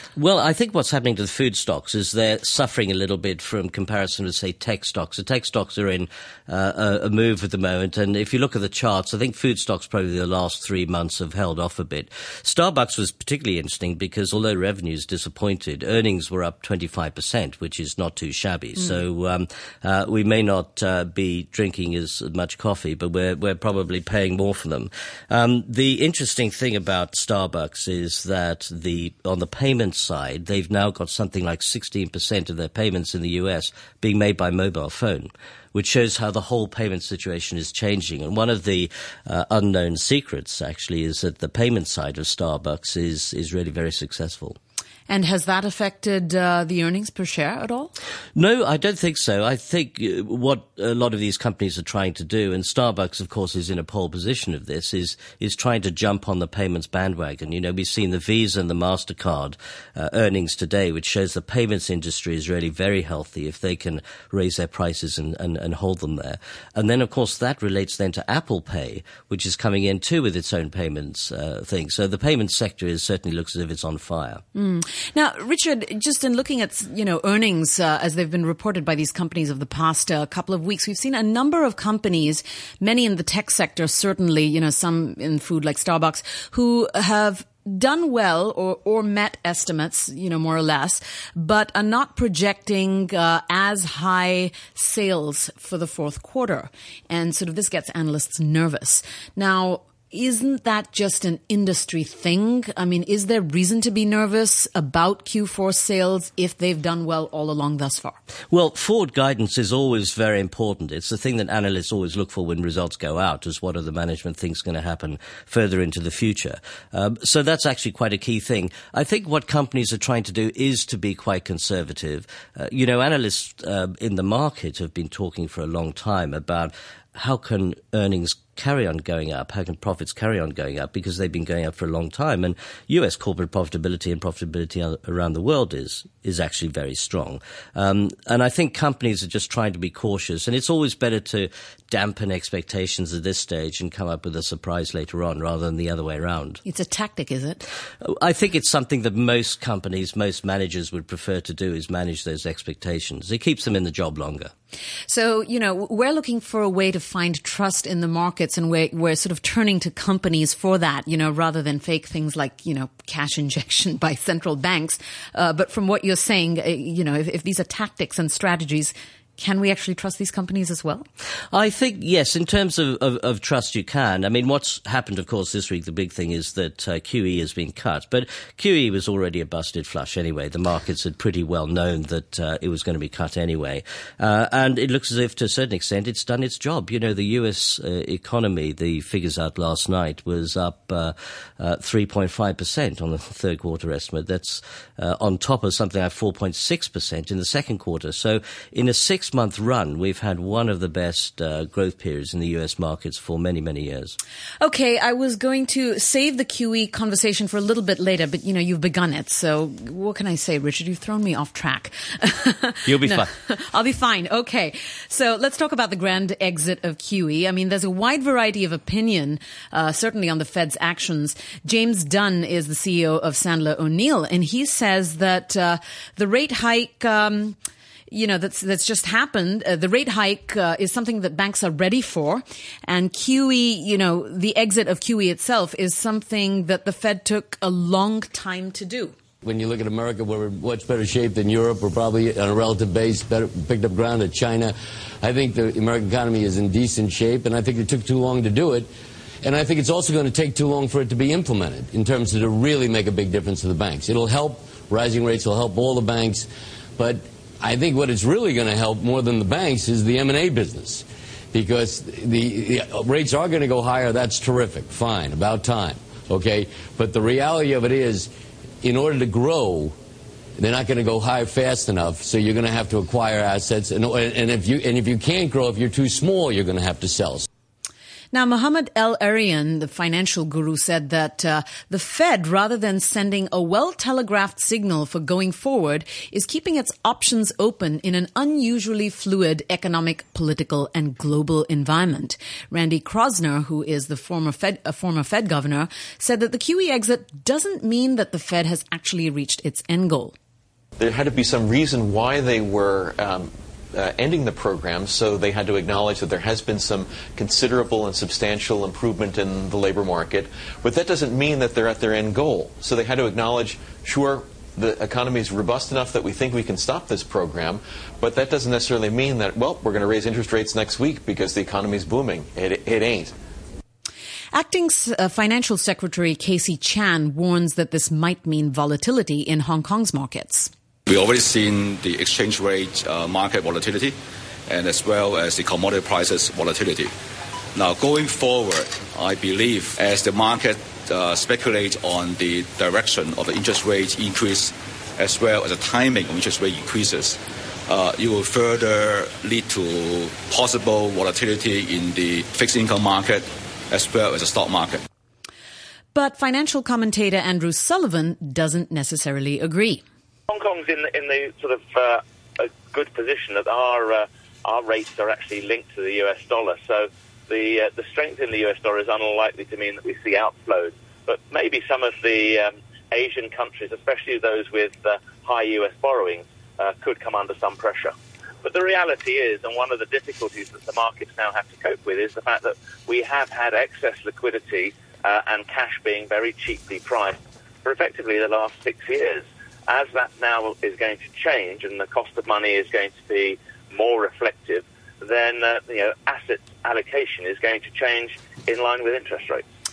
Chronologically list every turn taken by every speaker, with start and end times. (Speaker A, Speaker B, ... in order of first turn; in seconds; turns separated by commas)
Speaker A: 0.2-44.6, Speaker B: 45.1-47.9, Speaker A: 48.4-74.4, Speaker B: 74.5-108.2, Speaker A: 108.5-146.6, Speaker B: 146.6-147.6, Speaker A: 148.0-154.5, Speaker B: 155.1-171.1, Speaker A: 171.5-204.2, Speaker B: 204.6-227.6, Speaker A: 212.8-213.3, Speaker B: 228.1-239.1, Speaker C: 239.4-248.9, Speaker C: 249.4-268.3, Speaker C: 268.8-269.9, Speaker C: 270.6-277.5, Speaker B: 278.3-300.4, Speaker D: 301.0-323.3, Speaker B: 324.5-330.7, Speaker E: 331.1-334.1, Speaker E: 334.7-337.1, Speaker E: 337.7-355.0, Speaker B: 356.1-360.0, Speaker F: 360.5-399.6